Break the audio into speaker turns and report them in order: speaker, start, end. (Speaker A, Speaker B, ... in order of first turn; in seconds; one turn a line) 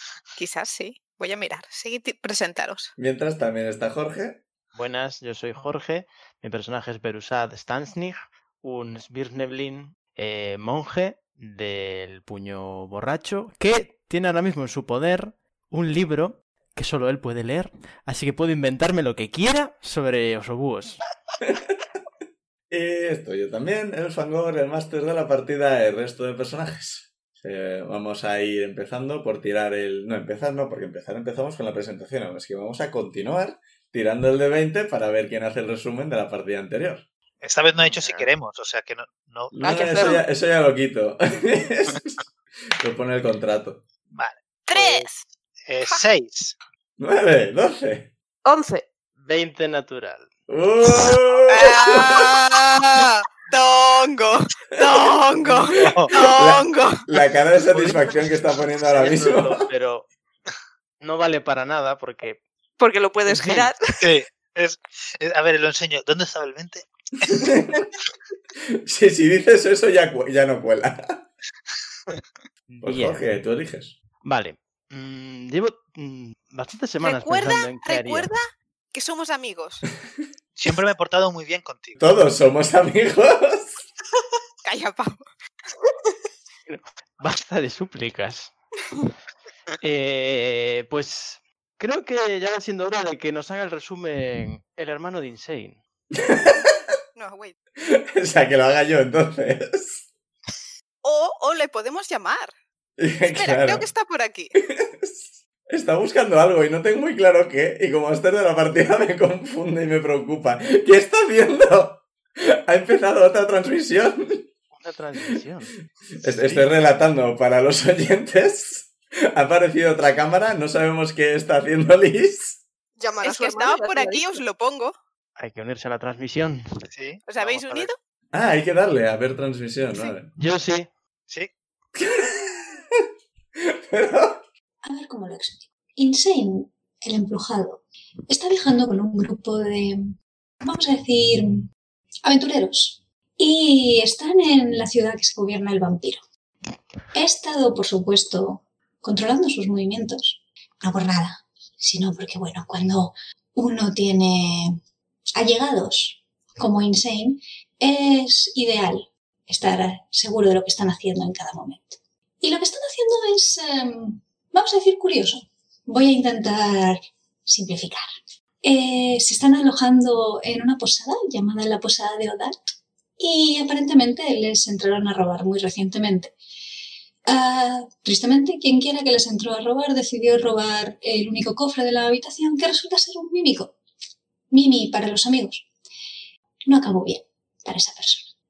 Speaker A: 0.4-2.9
Speaker B: 3.0-4.4
Speaker C: 4.7-21.0
Speaker B: 21.4-21.7
Speaker B: 22.7-37.1
Speaker D: 37.4-39.5
Speaker C: 37.8-38.3
Speaker B: 39.5-42.2
Speaker E: 39.6-40.2
Speaker B: 42.8-43.9
Speaker D: 44.1-45.1
Speaker A: 44.7-45.3
Speaker D: 45.6-46.6
Speaker B: 47.0-48.1
Speaker E: 48.5-48.9
Speaker C: 49.2-50.3
Speaker B: 50.5-52.2
Speaker A: 51.5-56.8
Speaker B: 55.8-59.7
Speaker D: 55.8-56.1
Speaker C: 57.8-58.1
Speaker C: 58.9-60.1
Speaker C: 61.0-62.4
Speaker E: 62.8-64.0
Speaker C: 63.3-63.7
Speaker D: 64.0-67.4
Speaker B: 67.3-67.8
Speaker B: 68.8-71.2
Speaker C: 72.7-73.2
Speaker B: 72.8-74.0
Speaker C: 74.2-78.3
Speaker A: 77.0-79.9
Speaker D: 80.5-82.0
Speaker B: 82.0-83.8
Speaker A: 84.7-85.2
Speaker C: 86.7-88.5
Speaker C: 89.8-95.8
Speaker B: 96.2-96.7
Speaker A: 97.2-97.5
Speaker B: 97.8-100.1
Speaker A: 101.0-102.5
Speaker B: 103.0-103.9
Speaker A: 103.3-104.6
Speaker B: 104.6-114.5
Speaker C: 114.7-115.7
Speaker B: 116.2-122.6
Speaker C: 116.3-116.7
Speaker E: 123.0-124.4
Speaker A: 123.2-125.0
Speaker C: 125.4-126.9
Speaker D: 126.9-127.9
Speaker A: 127.3-128.0
Speaker B: 128.3-130.3
Speaker C: 130.3-130.9
Speaker B: 131.9-133.0
Speaker B: 133.6-134.4
Speaker F: 134.8-141.7
Speaker F: 142.2-146.2
Speaker F: 147.1-154.8
Speaker F: 155.4-168.1
Speaker F: 168.6-176.3
Speaker F: 177.3-183.7
Speaker F: 184.5-185.7
Speaker F: 186.7-188.3